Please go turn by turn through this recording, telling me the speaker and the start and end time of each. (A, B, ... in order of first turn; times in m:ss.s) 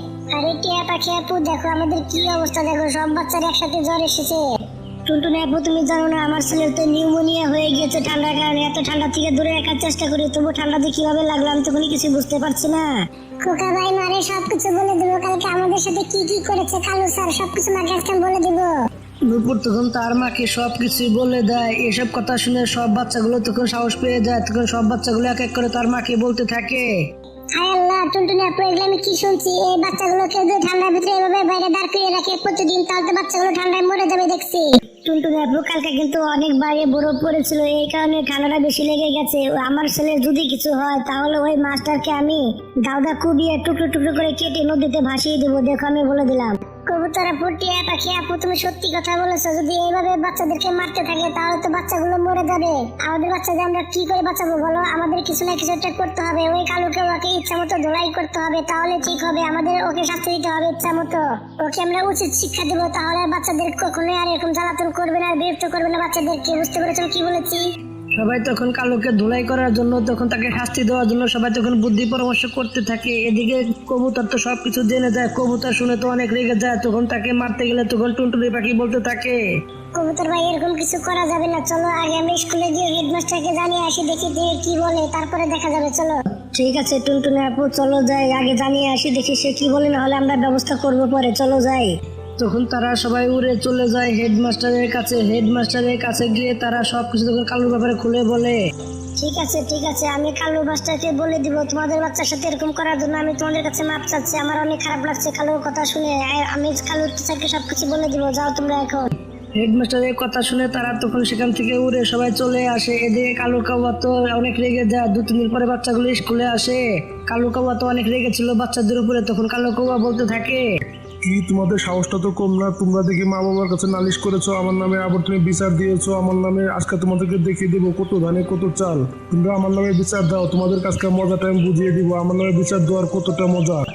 0:00.2-0:04.4 A
0:05.0-0:18.7 A
0:19.2-0:26.9 B
0:27.5-1:07.6 A
1:08.2-1:19.4 B
1:19.9-1:26.2 A
1:26.5-1:28.3 B
1:27.9-1:31.9 A
1:32.4-1:38.6 B
1:39.2-1:49.1 A
1:49.6-2:00.6 B
2:01.2-2:13.8 C